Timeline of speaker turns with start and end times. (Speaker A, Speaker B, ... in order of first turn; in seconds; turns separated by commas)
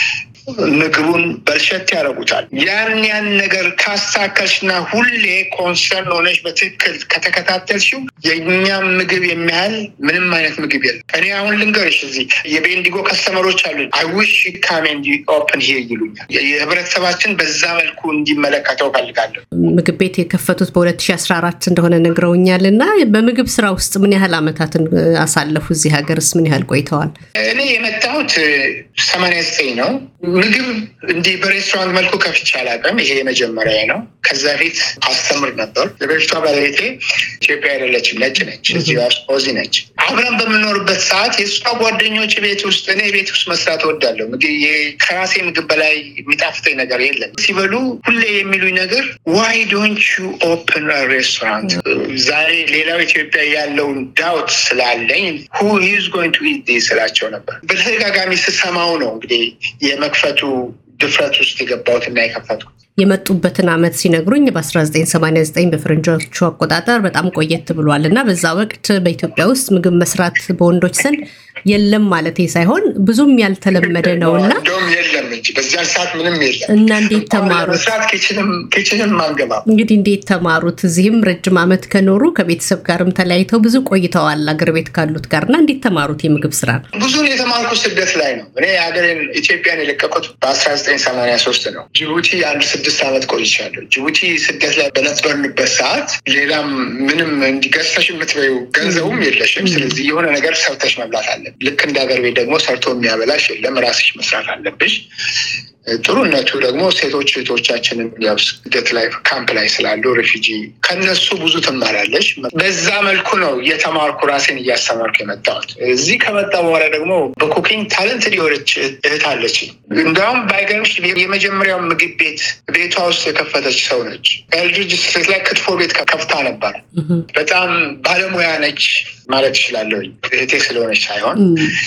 Speaker A: 0.6-19.4, Speaker B: 19.6-27.1, Speaker A: 27.4-62.7, Speaker B: 63.0-74.6, Speaker A: 73.8-79.7, Speaker B: 76.7-77.9, Speaker B: 79.7-86.8, Speaker A: 87.0-105.0, Speaker B: 98.8-100.0, Speaker A: 105.9-126.8, Speaker A: 127.3-131.6, Speaker B: 131.4-131.8